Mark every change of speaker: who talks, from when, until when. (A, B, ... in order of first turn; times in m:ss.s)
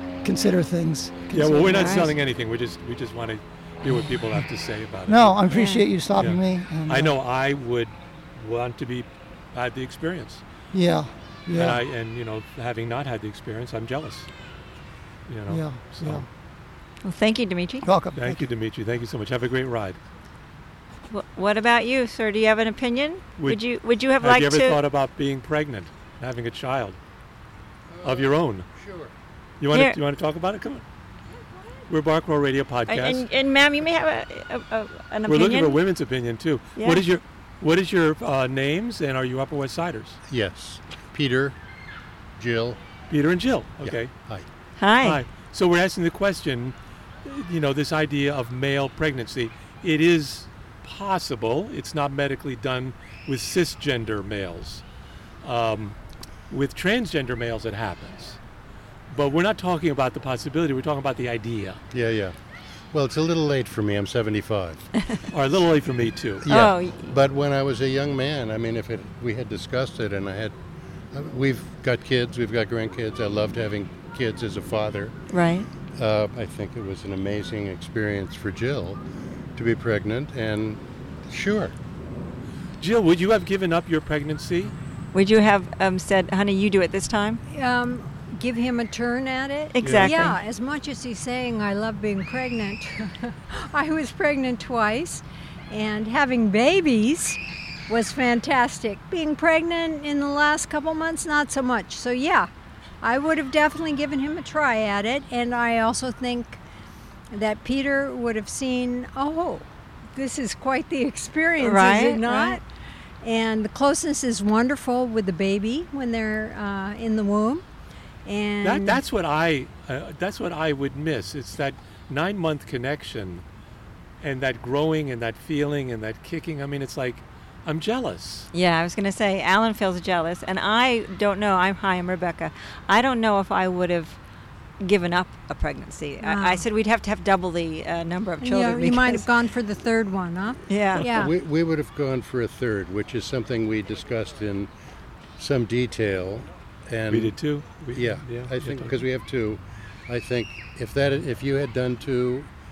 0:00.2-0:02.1 A
0:01.3-0:05.4 B
0:01.7-0:02.1 C
0:05.1-0:07.2 A
0:05.5-0:05.8 C
0:06.1-0:10.4 B
0:10.7-0:11.8 A
0:11.5-0:14.3 B
0:15.3-0:16.2 B
0:15.5-0:16.2 A
0:17.0-0:17.8 C
0:17.8-0:18.4 A
0:18.2-0:20.0 B
0:21.1-0:24.8 C
0:24.2-0:27.0 B
0:27.9-0:29.1 D
0:28.0-0:28.7 B
0:29.6-0:30.8 B
0:29.7-0:30.0 C
0:31.9-0:33.2 B
0:32.9-0:35.8 C
0:35.3-0:40.2 B
0:36.8-0:37.0 C
0:40.3-0:41.6 D
0:42.4-0:42.8 D
0:43.1-0:44.1 B
0:43.8-0:44.5 D
0:44.8-0:45.2 C
0:45.0-0:54.8 B
0:55.4-0:56.0 B
0:56.5-0:58.4 B
0:59.1-1:01.8 B
1:01.9-1:02.3 D
1:02.9-1:04.9 D
1:05.3-1:06.4 B
1:06.4-1:10.5 D
1:06.5-1:07.1 C
1:11.1-1:15.2 D
1:15.3-1:15.7 C
1:15.9-1:19.0 D
1:19.6-1:21.8 D
1:22.8-1:24.7 B
1:25.1-1:27.4 C
1:27.5-1:42.5 E
1:29.7-1:30.4 C
1:29.8-1:30.1 B
1:43.0-1:46.6 E
1:47.3-1:52.6 E
1:51.6-1:52.6 C
1:53.2-1:57.6 E
1:58.2-1:59.0 E
1:58.6-2:03.4 B
2:04.2-2:08.5 B
2:08.5-2:14.2 C
2:14.8-2:19.3 C
2:16.2-2:16.6 E
2:18.4-2:21.3 E
2:20.7-2:21.1 C
2:21.0-2:24.7 D
2:25.4-2:27.4 D
2:27.1-2:29.0 B
2:27.9-2:32.5 D